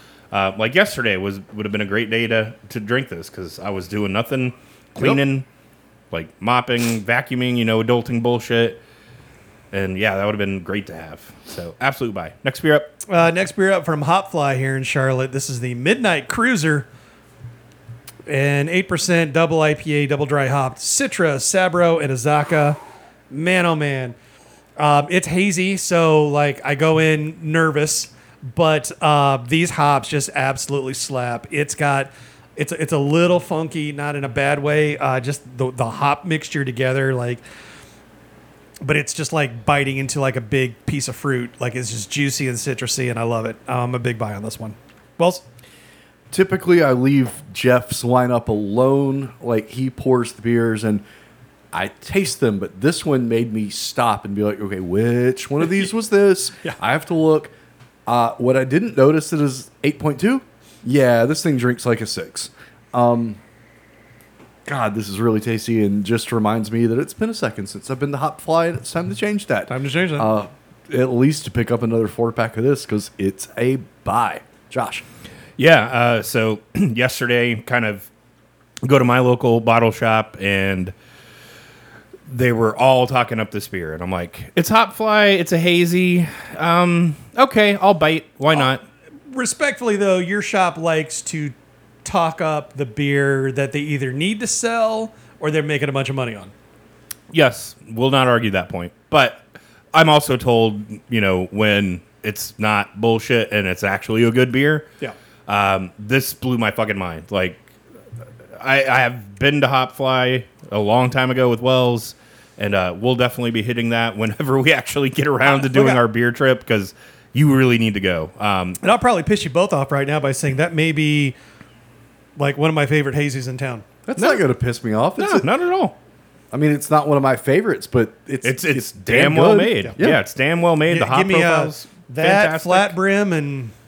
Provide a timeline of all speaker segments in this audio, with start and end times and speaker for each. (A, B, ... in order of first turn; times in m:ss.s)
0:00.3-0:05.5 A
0:06.1-0:08.8 A
0:09.7-0:12.9 A
0:13.1-0:16.9 B
0:18.3-0:22.8 B
0:23.3-0:24.2 B
0:24.8-0:37.4 B
0:38.8-0:45.4 B
0:46.3-0:51.0 C
0:51.7-0:57.5 C
0:58.1-1:03.4 C
1:04.7-1:15.0 C
1:09.7-1:10.3 B
1:15.6-1:18.1 A
1:18.8-1:20.9 A
1:22.3-1:28.8 A
1:29.3-1:36.5 B
1:37.3-1:44.9 A
1:45.5-1:47.6 A
1:48.6-1:58.8 A
1:55.4-1:56.0 B
1:58.8-2:01.4 B
2:02.4-2:03.8 B
2:04.1-2:05.5 C
2:04.2-2:04.4 A
2:05.2-2:06.0 A
2:06.5-2:10.2 C
2:08.4-2:13.0 A
2:10.9-2:13.7 B